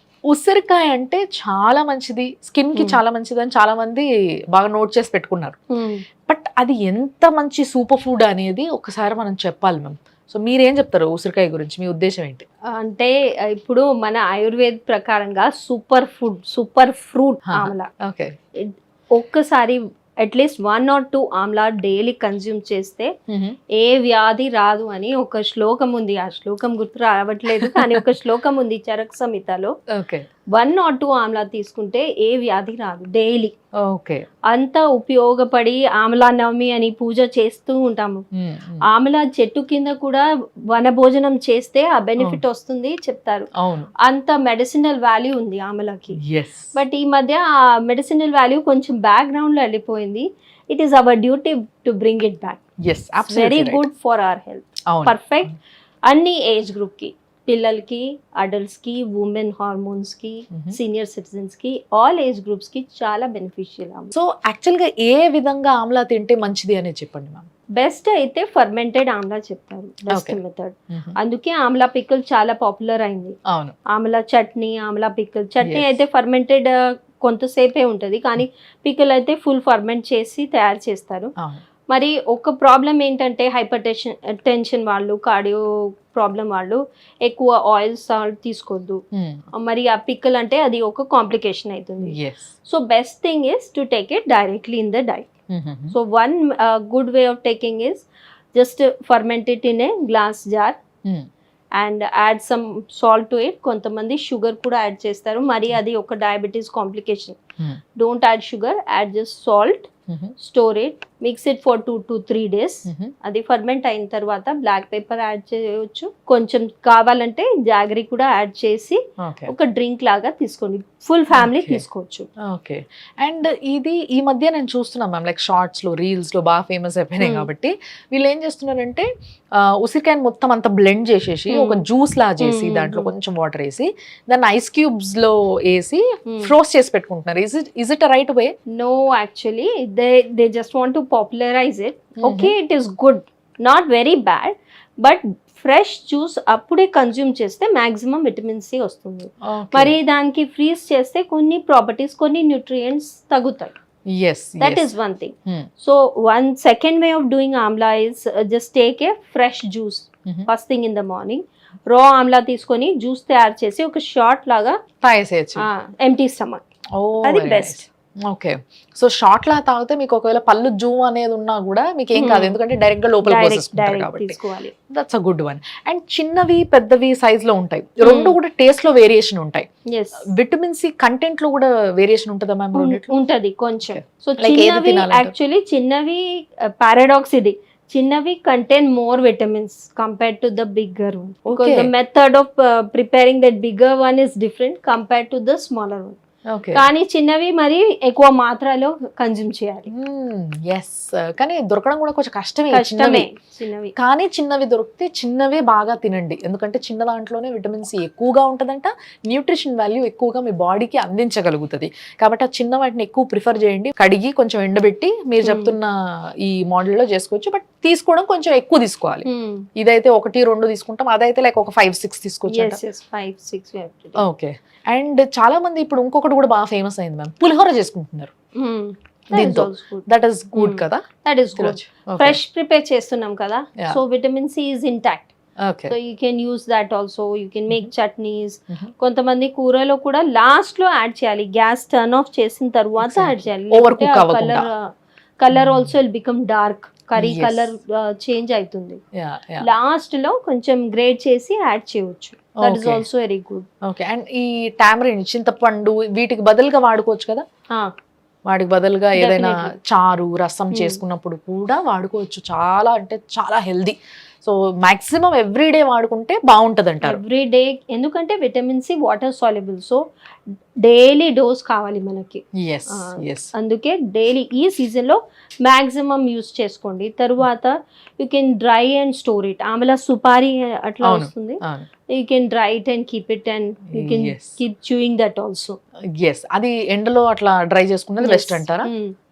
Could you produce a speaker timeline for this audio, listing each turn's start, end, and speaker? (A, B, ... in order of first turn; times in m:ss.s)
0:00.3-0:05.6 A
0:02.7-0:03.0 B
0:05.7-0:06.0 B
0:06.3-0:12.4 A
0:12.7-0:17.9 B
0:17.5-0:18.3 A
0:18.6-0:23.1 B
0:23.3-0:23.6 A
0:23.7-0:29.7 B
0:27.6-0:28.0 A
0:29.9-0:30.3 A
0:30.5-0:33.5 B
0:33.8-0:34.2 A
0:34.5-0:38.2 B
0:38.3-0:38.8 A
0:38.9-0:43.5 B
0:43.6-0:43.9 A
0:44.0-0:46.2 B
0:46.2-0:46.8 A
0:46.7-0:52.6 B
0:52.8-0:53.9 A
0:53.2-1:04.1 B
0:54.9-0:55.5 A
1:00.5-1:00.8 A
1:04.1-1:07.5 A
1:07.8-1:13.4 B
1:10.1-1:10.4 A
1:13.5-1:13.8 A
1:13.9-1:21.3 B
1:15.6-1:15.9 A
1:21.9-1:29.0 B
1:29.1-1:29.4 A
1:29.5-1:35.3 B
1:32.1-1:32.5 A
1:35.5-1:36.0 A
1:35.9-1:40.8 B
1:41.8-1:47.4 B
1:48.0-2:02.3 B
1:50.1-1:50.3 A
1:52.9-1:53.1 A
1:59.2-1:59.5 A
2:01.3-2:01.8 A
2:02.4-2:18.5 A
2:07.2-2:07.5 B
2:11.5-2:11.8 B
2:12.4-2:13.1 B
2:16.2-2:16.5 B
2:18.7-2:33.8 B
2:22.2-2:22.6 A
2:29.4-2:30.0 A
2:34.1-2:34.9 A
2:34.6-2:44.8 B
2:45.0-2:45.7 A
2:45.6-2:46.6 B
2:47.0-2:54.4 A
2:47.2-2:47.9 B
2:52.2-2:52.6 B
2:53.2-2:54.7 B
2:54.9-2:59.7 A
2:58.0-2:58.4 B
2:59.9-3:00.3 B
3:00.3-3:03.1 A
3:02.7-3:16.2 B
3:03.9-3:05.3 A
3:11.4-3:11.9 A
3:16.5-3:16.9 A
3:16.7-3:19.9 B
3:19.9-3:23.3 A
3:22.7-3:23.9 B
3:24.0-3:39.2 A
3:35.4-3:35.8 B
3:39.2-3:39.7 B
3:39.8-3:42.8 A
3:42.5-3:44.2 B
3:44.2-3:48.3 A
3:48.6-3:55.3 B
3:49.3-3:51.0 A
3:51.6-3:52.4 A
3:55.6-3:56.0 A
3:55.9-4:09.0 B
4:03.0-4:04.7 A
4:05.5-4:05.9 A
4:07.2-4:07.7 A
4:09.2-4:09.7 A
4:09.6-4:13.7 B
4:12.6-4:13.0 A
4:13.8-4:17.4 A
4:18.5-4:27.2 A
4:19.2-4:19.7 B
4:20.7-4:21.0 B
4:27.0-4:30.0 B
4:30.8-4:41.6 B
4:32.6-4:33.5 A
4:41.0-4:41.9 A
4:42.1-4:45.8 B
4:44.0-4:44.6 A
4:46.2-4:48.9 A
4:48.2-4:49.1 B